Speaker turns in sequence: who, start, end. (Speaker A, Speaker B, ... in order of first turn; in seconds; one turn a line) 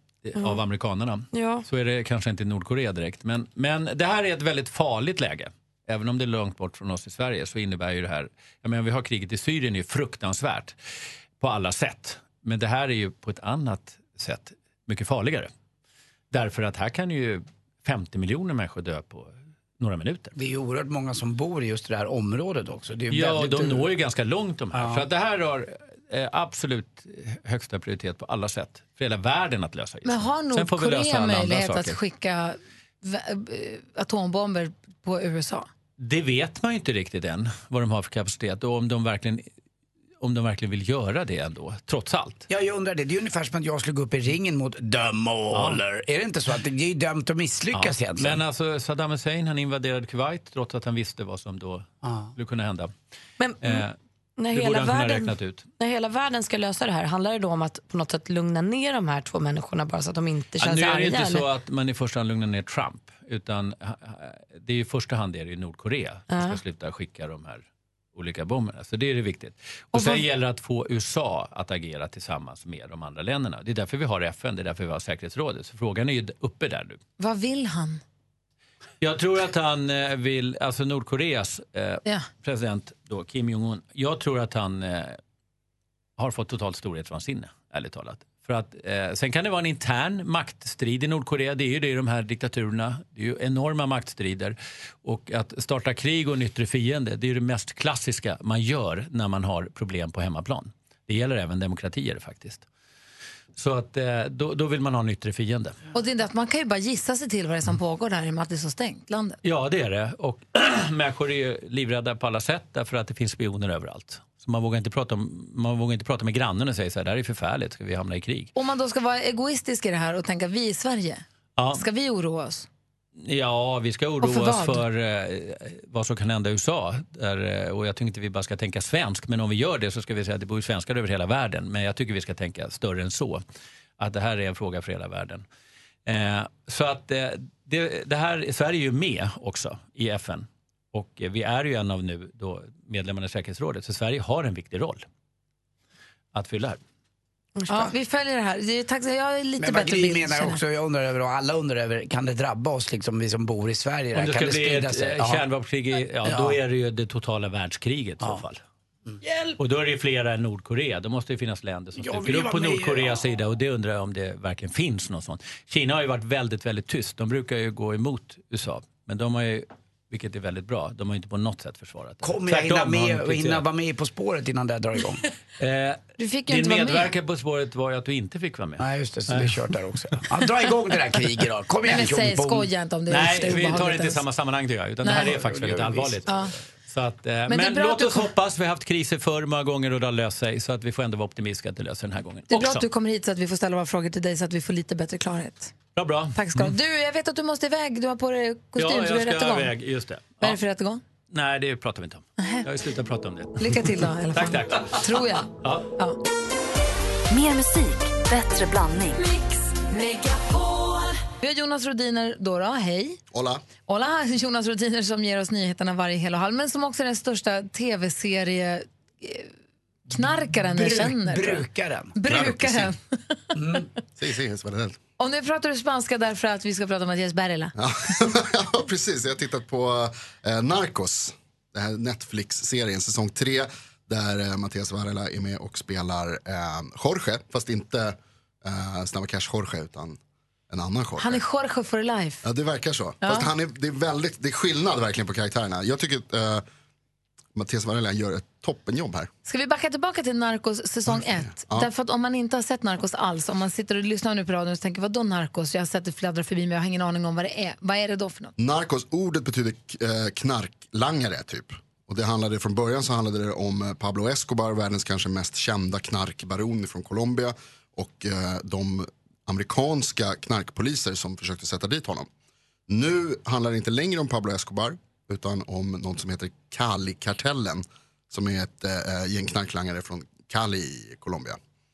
Speaker A: 0.2-10.8
Speaker B: 0.3-0.6
Speaker B: 1.3-1.6
Speaker A: 11.4-15.5
Speaker A: 16.3-20.3
Speaker C: 20.3-23.9
Speaker A: 23.1-32.0
Speaker C: 24.7-25.1
Speaker D: 30.0-35.7
Speaker A: 36.0-39.5
Speaker A: 40.2-42.4
Speaker C: 42.5-48.4
Speaker A: 45.5-45.8
Speaker A: 47.7-52.9
Speaker C: 52.0-52.3
Speaker B: 53.4-53.8
Speaker A: 53.6-54.0
Speaker B: 54.4-61.5
Speaker A: 54.5-55.6
Speaker A: 60.6-77.0
Speaker B: 66.3-66.6
Speaker D: 69.9-70.2
Speaker D: 77.2-78.0
Speaker A: 79.0-85.2
Speaker A: 86.2-102.7
Speaker A: 103.5-105.8
Speaker D: 105.9-109.4
Speaker A: 109.4-118.5
Speaker D: 118.5-121.2
Speaker A: 121.6-121.8
Speaker D: 121.7-122.7
Speaker A: 123.2-133.4
Speaker D: 124.2-124.8
Speaker A: 134.0-135.4
Speaker A: 136.1-145.0
Speaker A: 146.3-146.8
Speaker B: 147.6-147.9
Speaker D: 147.7-150.6
Speaker C: 149.6-155.4
Speaker A: 154.1-158.6
Speaker C: 156.2-156.6
Speaker A: 159.6-173.6
Speaker C: 161.9-163.2
Speaker C: 172.2-175.2
Speaker A: 175.6-179.6
Speaker D: 176.2-177.1
Speaker C: 178.8-182.7
Speaker D: 181.8-184.2
Speaker A: 183.1-186.3
Speaker D: 185.0-185.3
Speaker C: 185.1-186.3
Speaker D: 186.2-186.5
Speaker A: 186.9-192.8
Speaker D: 187.5-188.3
Speaker D: 192.5-195.7
Speaker A: 195.9-196.8
Speaker D: 196.3-199.7
Speaker A: 198.8-200.6
Speaker D: 200.4-201.0
Speaker A: 201.3-205.9
Speaker D: 202.4-202.7
Speaker D: 203.6-206.2
Speaker E: 207.3-209.2
Speaker D: 211.4-213.2
Speaker F: 213.3-213.6
Speaker D: 213.9-219.5
Speaker D: 220.1-223.4
Speaker C: 220.7-222.8
Speaker C: 223.6-223.8
Speaker F: 224.2-225.0
Speaker D: 225.2-227.7
Speaker F: 227.8-240.2
Speaker F: 240.7-241.4
Speaker D: 241.2-242.4
Speaker F: 242.4-246.6
Speaker D: 243.2-243.5
Speaker F: 247.5-249.3
Speaker D: 249.4-258.5
Speaker F: 251.1-251.9
Speaker F: 258.6-272.3
Speaker F: 272.9-281.6